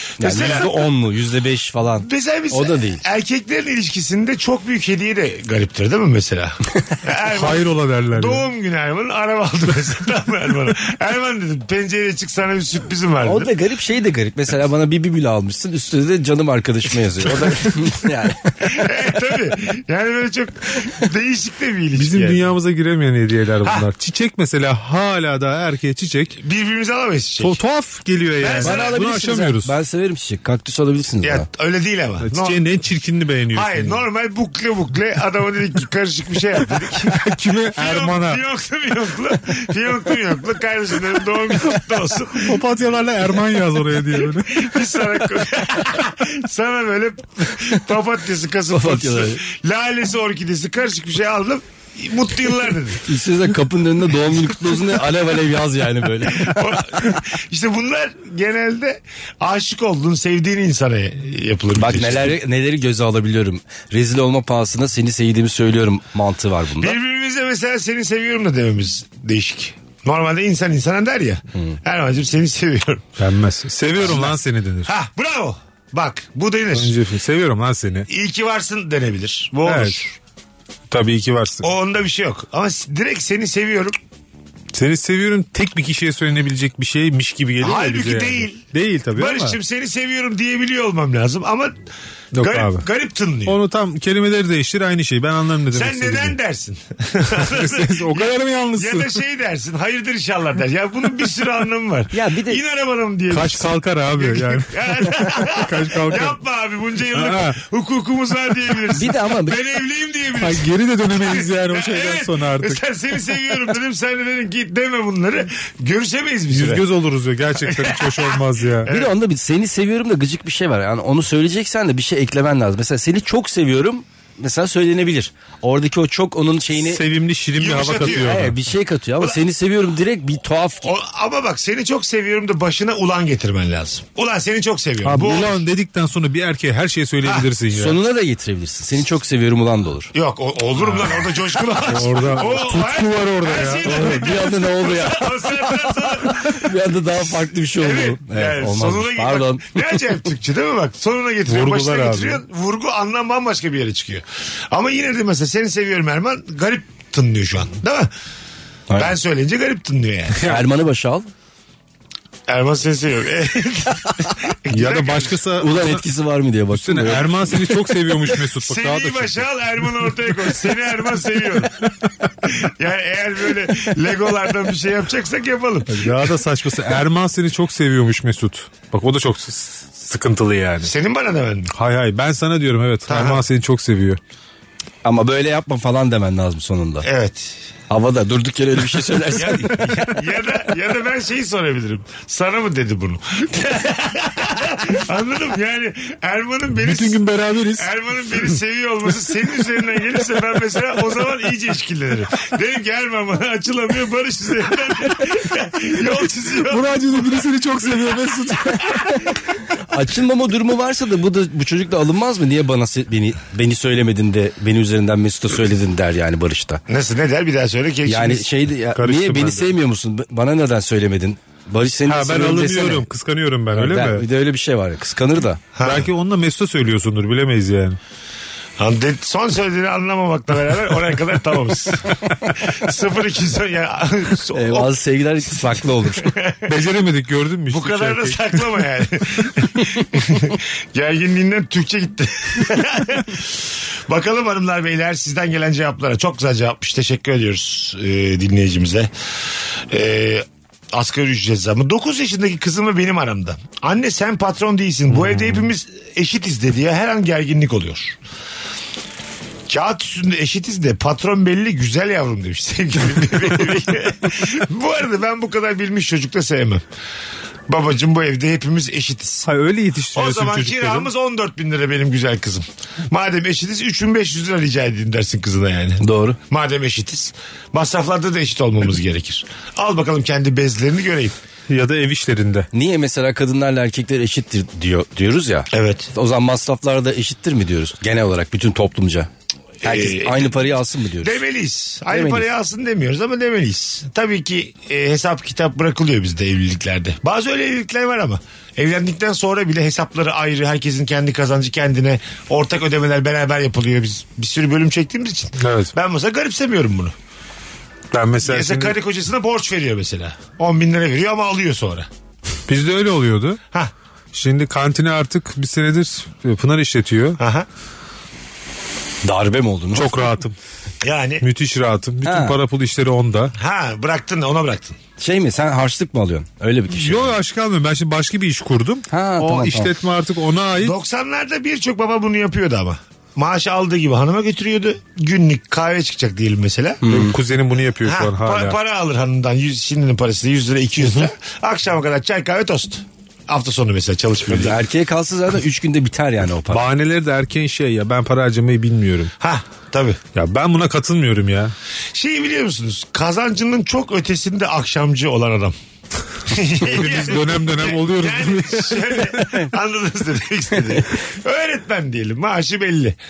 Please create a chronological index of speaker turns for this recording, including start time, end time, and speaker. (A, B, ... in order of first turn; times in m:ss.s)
0:00.2-0:00.7 A
0:00.2-0:03.0 B
0:02.0-0:13.5 A
0:07.3-0:08.4 C
0:13.2-0:18.9 B
0:18.6-0:22.4 A
0:21.9-0:26.4 C
0:26.4-0:27.6 A
0:27.4-0:29.7 C
0:28.4-0:28.9 A
0:28.6-0:31.4 B
0:31.2-0:32.6 A
0:32.2-0:34.0 C
0:33.5-0:42.6 A
0:37.1-0:38.4 C
0:42.3-0:44.8 C
0:44.2-0:53.0 A
0:48.7-0:49.4 B
0:52.9-0:57.1 B
0:56.2-1:02.4 A
1:01.8-1:07.0 B
1:06.8-1:13.1 A
1:13.2-1:14.9 C
1:14.0-1:16.9 A
1:16.7-1:18.1 C
1:18.1-1:20.2 A
1:19.6-1:20.0 C
1:20.9-1:21.7 C
1:21.6-1:24.0 A
1:24.7-1:29.6 C
1:27.6-1:31.8 A
1:32.3-1:32.9 C
1:32.4-1:33.6 A
1:33.4-1:36.4 C
1:35.7-1:56.9 A
1:37.3-1:39.2 C
1:42.1-1:42.6 B
1:43.3-1:46.4 C
1:47.1-1:47.6 C
1:48.9-1:49.6 B
1:50.4-1:52.8 C
1:56.5-1:58.9 C
1:57.6-1:59.1 A
1:58.9-2:07.0 B
2:06.8-2:08.6 C
2:07.6-2:08.5 A
2:08.0-2:10.9 B
2:10.8-2:15.6 A
2:15.0-2:18.0 C
2:17.7-2:20.1 B
2:20.1-2:26.7 A
2:20.8-2:21.2 C
2:21.8-2:24.4 C
2:23.8-2:30.1 B
2:27.8-2:38.1 A
2:31.5-2:32.4 C
2:39.0-2:40.5 A
2:40.4-2:41.3 B
2:42.5-2:45.4 A
2:44.7-2:46.0 C
2:45.6-2:47.6 B
2:46.7-2:49.4 C
2:48.6-2:51.9 A
2:52.4-2:56.2 A
2:55.9-3:00.9 C
3:00.8-3:01.7 A
3:01.7-3:04.2 C
3:03.1-3:03.4 A
3:05.0-3:07.1 B
3:07.0-3:07.6 A
3:07.9-3:10.0 B
3:09.3-3:17.2 A
3:16.8-3:18.4 C
3:17.7-3:27.4 A
3:26.6-3:29.0 C
3:28.9-3:36.8 B
3:36.9-3:38.5 A
3:38.0-3:43.0 B
3:38.9-3:39.7 C
3:42.0-3:44.2 C
3:43.7-3:45.6 B
3:45.7-3:46.1 A
3:45.8-3:48.0 C
3:48.8-3:55.0 A
3:54.5-3:56.3 B
3:56.2-3:56.8 A
3:56.7-3:58.6 C
3:57.7-4:09.1 A
4:09.9-4:18.2 A
4:15.1-4:15.7 C
4:19.7-4:26.8 A
4:27.7-4:29.5 A
4:29.4-4:31.1 C
4:30.1-4:41.4 A
4:36.0-4:36.4 B
4:41.7-4:42.7 C
4:42.7-4:49.3 B
4:45.7-4:46.1 A
4:49.8-4:50.7 A
4:49.8-4:51.4 B
4:51.2-5:07.1 A
4:52.1-4:52.4 B
5:05.6-5:05.9 C
5:08.1-5:09.0 C
5:08.4-5:12.1 A
5:12.7-5:13.6 C
5:14.3-5:17.4 C
5:17.4-5:17.7 A
5:19.2-5:20.3 B
5:19.9-5:20.6 C
5:21.0-5:21.4 A
5:21.4-5:23.5 C
5:22.2-5:22.6 B
5:23.6-5:25.0 A
5:25.2-5:27.4 B
5:26.9-5:31.0 C
5:29.1-5:29.9 B
5:30.8-5:37.0 A
5:37.0-5:37.4 B
5:37.1-5:38.8 C
5:38.0-5:44.8 A
5:44.4-5:46.8 B
5:46.7-5:49.3 C
5:49.4-5:50.2 A
5:50.3-5:51.7 C
5:52.1-5:55.7 A
5:56.4-6:03.2 A
5:56.8-5:59.4 C